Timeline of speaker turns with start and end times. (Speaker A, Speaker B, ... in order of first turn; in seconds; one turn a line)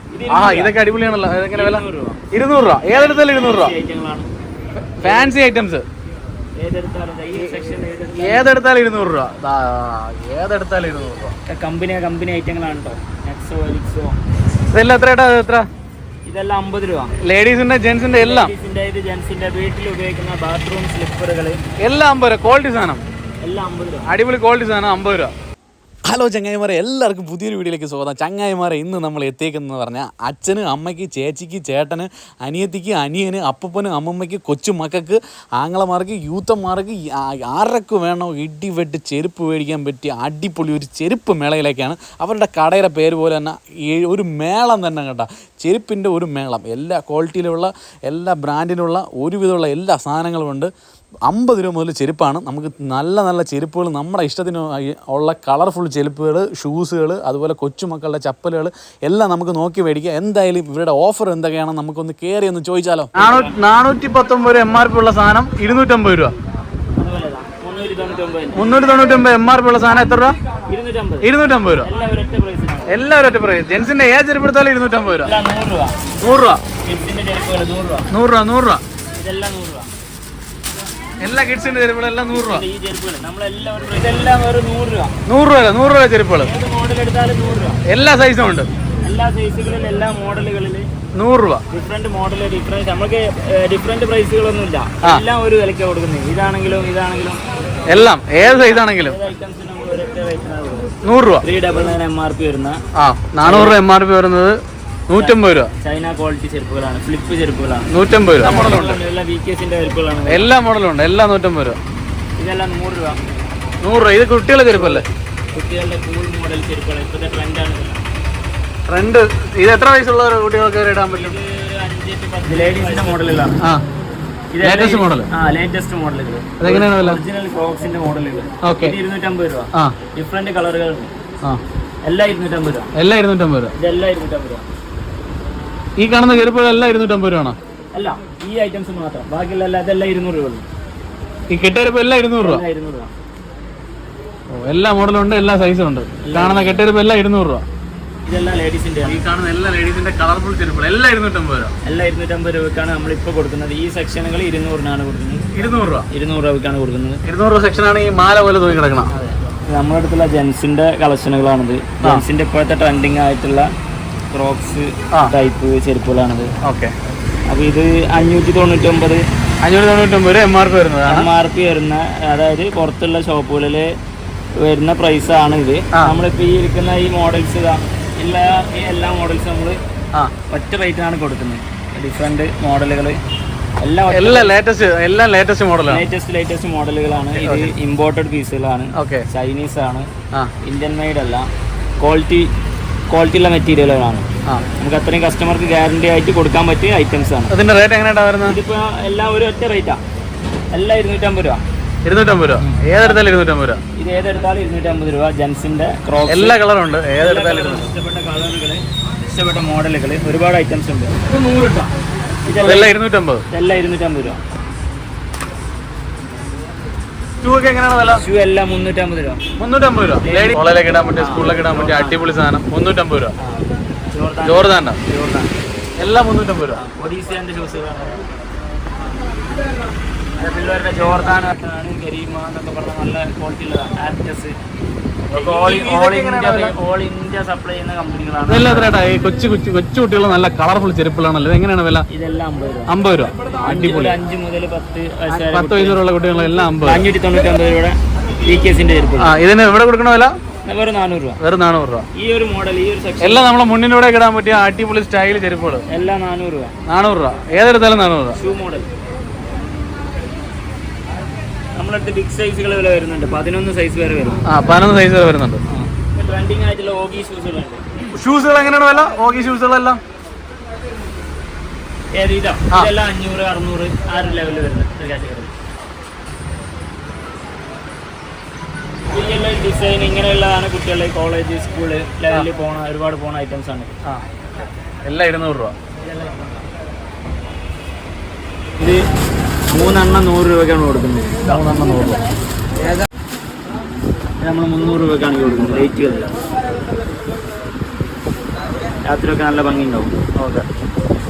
Speaker A: 0.1-0.8
Speaker B: 0.3-3.7
Speaker A: 1.5-2.2
Speaker A: 2.9-4.3
Speaker B: 5.0-5.8
Speaker A: 5.0-5.4
Speaker A: 6.6-8.5
Speaker B: 7.3-7.6
Speaker B: 8.2-11.3
Speaker A: 11.5-14.2
Speaker B: 14.7-15.7
Speaker A: 16.2-17.1
Speaker B: 17.2-18.5
Speaker A: 18.1-21.6
Speaker B: 21.8-23.0
Speaker A: 23.4-24.1
Speaker B: 24.1-25.3
Speaker B: 26.1-50.7
Speaker B: 51.3-66.3
Speaker A: 63.2-63.5
Speaker A: 67.0-68.7
Speaker B: 68.5-70.4
Speaker A: 70.7-71.3
Speaker B: 71.2-71.9
Speaker A: 71.8-73.0
Speaker B: 72.9-75.3
Speaker A: 75.2-76.0
Speaker B: 76.2-76.6
Speaker A: 76.8-78.1
Speaker B: 78.1-78.8
Speaker A: 79.2-79.9
Speaker B: 81.2-82.6
Speaker A: 82.3-85.1
Speaker B: 85.2-86.5
Speaker A: 86.4-87.8
Speaker B: 87.8-88.7
Speaker A: 89.0-90.9
Speaker B: 91.1-91.6
Speaker A: 91.7-100.9
Speaker B: 97.9-99.2
Speaker B: 101.0-101.4
Speaker A: 101.4-102.8
Speaker B: 103.0-104.6
Speaker A: 103.4-103.8
Speaker B: 105.1-105.7
Speaker A: 105.1-110.5
Speaker B: 107.9-109.0
Speaker B: 110.3-111.8
Speaker A: 112.4-113.2
Speaker B: 113.8-115.0
Speaker A: 114.7-118.0
Speaker B: 118.9-121.4
Speaker A: 121.1-123.6
Speaker A: 124.5-131.1
Speaker B: 124.6-125.3
Speaker B: 126.6-127.2
Speaker B: 128.6-129.0
Speaker A: 132.0-132.9
Speaker B: 132.9-133.7
Speaker A: 133.7-134.7
Speaker B: 136.0-137.6
Speaker A: 137.9-140.6
Speaker B: 141.5-142.6
Speaker A: 142.4-143.1
Speaker B: 144.5-147.6
Speaker A: 146.2-146.8
Speaker A: 148.2-149.2
Speaker B: 149.0-151.7
Speaker A: 151.8-155.4
Speaker B: 155.5-156.1
Speaker A: 156.1-157.2
Speaker B: 157.2-159.1
Speaker A: 159.1-163.7
Speaker A: 164.3-166.5
Speaker B: 166.6-166.9
Speaker A: 167.5-169.2
Speaker B: 169.6-171.3
Speaker A: 171.1-173.9
Speaker A: 174.6-179.8
Speaker A: 180.5-183.2
Speaker A: 183.8-184.5
Speaker B: 184.1-186.0
Speaker A: 185.9-190.1
Speaker B: 187.3-187.7
Speaker B: 188.9-189.3
Speaker A: 190.6-191.5
Speaker A: 192.0-192.5
Speaker A: 193.1-194.2
Speaker A: 194.8-197.5
Speaker B: 197.5-198.6
Speaker A: 198.4-200.0
Speaker A: 200.7-201.6
Speaker B: 202.0-203.8
Speaker A: 203.9-206.6
Speaker B: 206.3-207.9
Speaker A: 207.2-211.2
Speaker B: 211.3-211.9
Speaker A: 212.4-212.9
Speaker B: 212.6-213.4
Speaker A: 213.5-214.4
Speaker B: 217.4-218.2
Speaker A: 218.1-219.4
Speaker B: 219.6-223.3
Speaker A: 220.2-220.6
Speaker A: 221.1-222.2
Speaker A: 223.4-225.5
Speaker B: 224.4-225.0
Speaker B: 226.0-226.8
Speaker A: 226.7-228.2
Speaker A: 230.4-234.6
Speaker B: 235.3-236.8
Speaker A: 235.3-239.0
Speaker B: 238.5-242.1
Speaker A: 242.1-242.9
Speaker B: 242.9-244.2
Speaker A: 243.6-246.0
Speaker B: 245.3-247.1
Speaker A: 246.8-249.3
Speaker B: 249.2-250.3
Speaker A: 250.6-251.4
Speaker B: 251.4-252.1
Speaker A: 252.1-253.4
Speaker B: 253.2-255.8
Speaker A: 255.9-256.7
Speaker B: 256.9-258.4
Speaker A: 258.3-258.9
Speaker A: 261.7-264.4
Speaker B: 264.5-265.6
Speaker A: 265.7-267.8
Speaker B: 268.1-270.0
Speaker A: 272.1-275.5
Speaker A: 279.1-283.9
Speaker B: 285.0-285.7
Speaker A: 286.1-286.5
Speaker A: 289.7-291.6
Speaker B: 291.4-292.2
Speaker A: 294.4-296.3
Speaker A: 299.1-300.1
Speaker B: 300.4-300.6